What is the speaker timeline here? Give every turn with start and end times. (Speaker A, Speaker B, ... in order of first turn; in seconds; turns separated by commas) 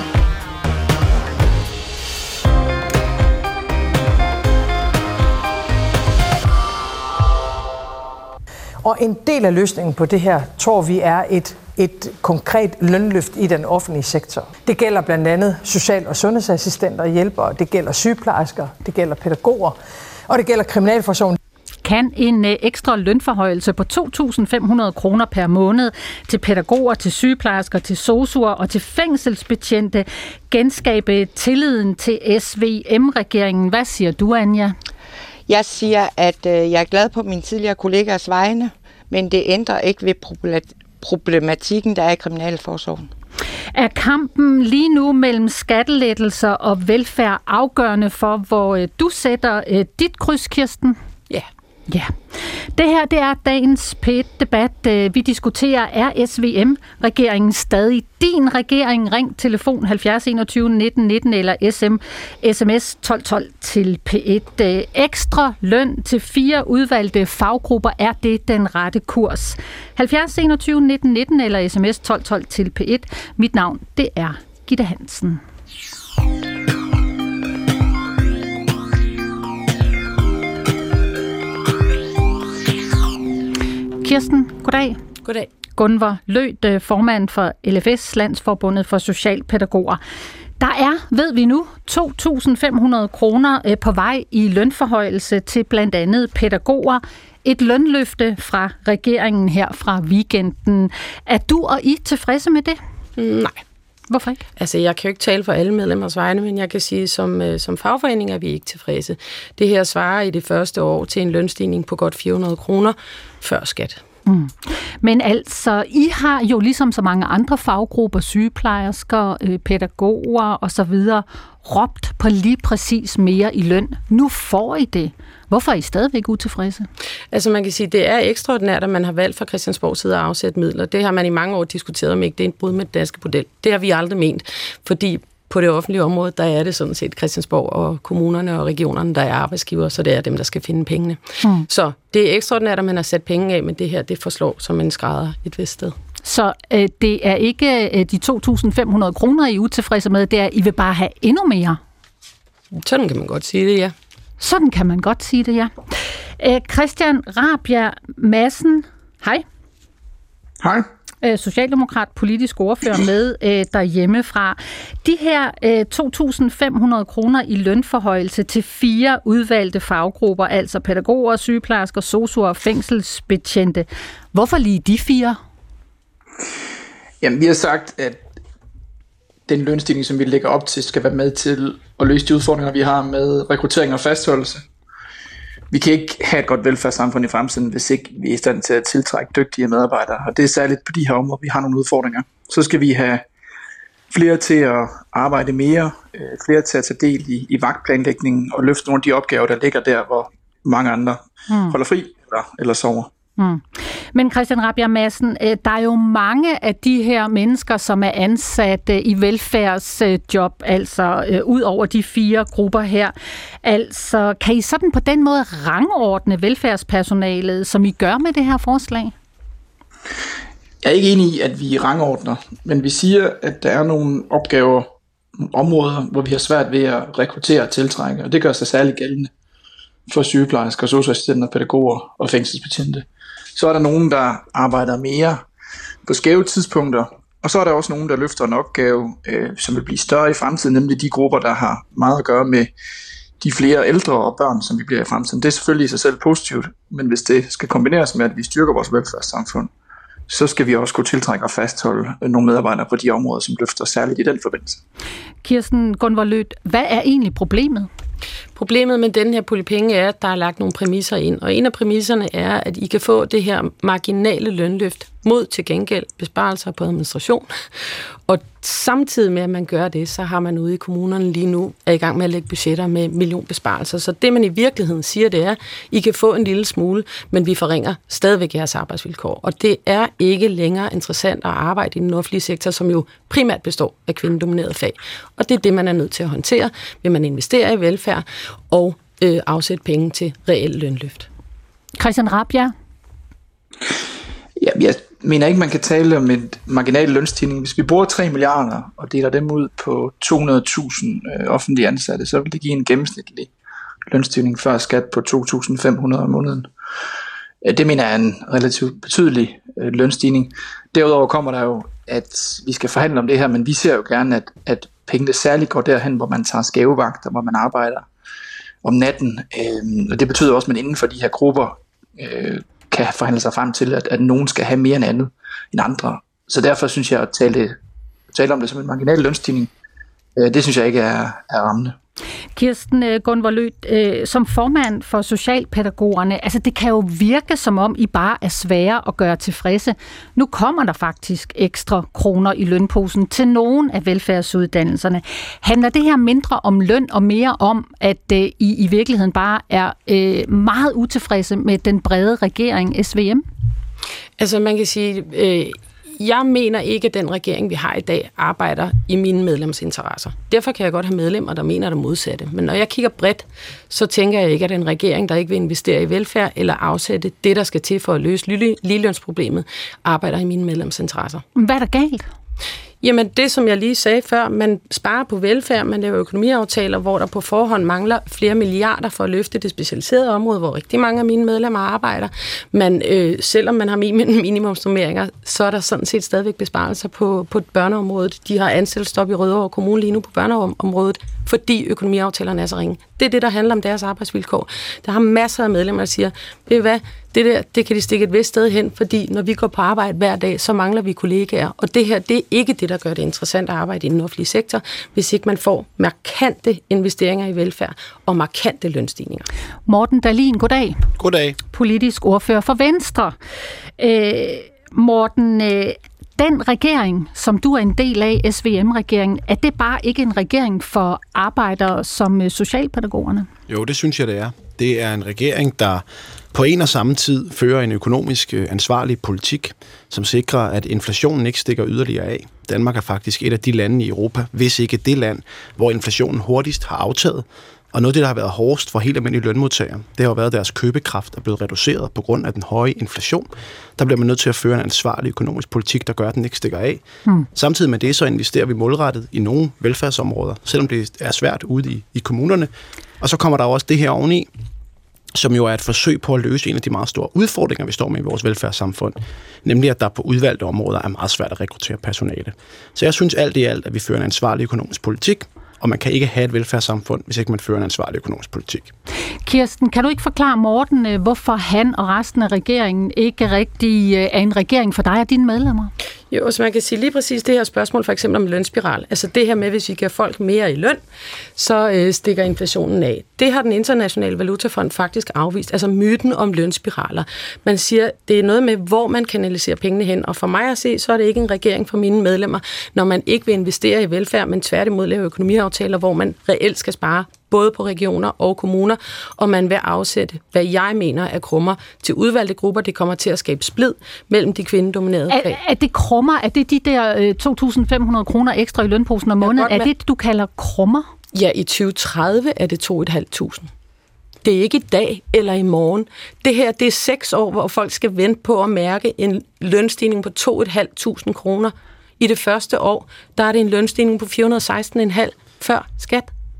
Speaker A: 8.8-19.8, Speaker A: 20.3-21.4, Speaker B: 21.8-34.7, Speaker C: 35.5-43.1, Speaker B: 43.7-51.0, Speaker B: 51.9-75.4, Speaker B: 84.0-85.0, Speaker B: 85.8-90.0, Speaker B: 90.6-102.8, Speaker D: 103.2-103.6, Speaker B: 104.1-104.4, Speaker D: 104.6-114.0, Speaker B: 114.2-126.9, Speaker D: 127.3-145.9, Speaker B: 146.2-151.8, Speaker D: 152.7-153.9, Speaker B: 154.4-159.4, Speaker E: 160.6-160.9, Speaker B: 161.2-175.4, Speaker E: 177.2-178.2, Speaker E: 179.5-184.6, Speaker E: 185.7-193.2, Speaker E: 194.1-203.1, Speaker B: 201.5-201.8, Speaker B: 203.4-219.1, Speaker E: 220.8-229.3, Speaker E: 230.1-235.4, Speaker E: 236.1-242.7, Speaker E: 243.4-249.7, Speaker E: 250.3-254.8, Speaker B: 255.4-257.9, Speaker D: 258.6-267.5, Speaker D: 268.3-291.3, Speaker B: 292.0-292.7, Speaker E: 294.6-303.5, Speaker E: 304.1-306.7, Speaker E: 307.6-318.1, Speaker E: 318.8-327.8, Speaker E: 328.3-329.7, Speaker E: 330.4-331.9, Speaker B: 332.6-353.4, Speaker D: 354.4-371.4, Speaker B: 371.5-372.3, Speaker D: 373.0-409.5, Speaker B: 409.9-411.1, Speaker F: 411.2-411.6, Speaker B: 411.7-413.4, Speaker B: 414.0-423.5, Speaker F: 423.7-454.5, Speaker F: 455.3-468.9, Speaker B: 469.4-475.9, Speaker D: 476.3-481.0, Speaker D: 481.6-505.6, Speaker B: 505.3-511.1, Speaker D: 509.4-509.9, Speaker D: 511.3-513.7, Speaker D: 514.4-526.3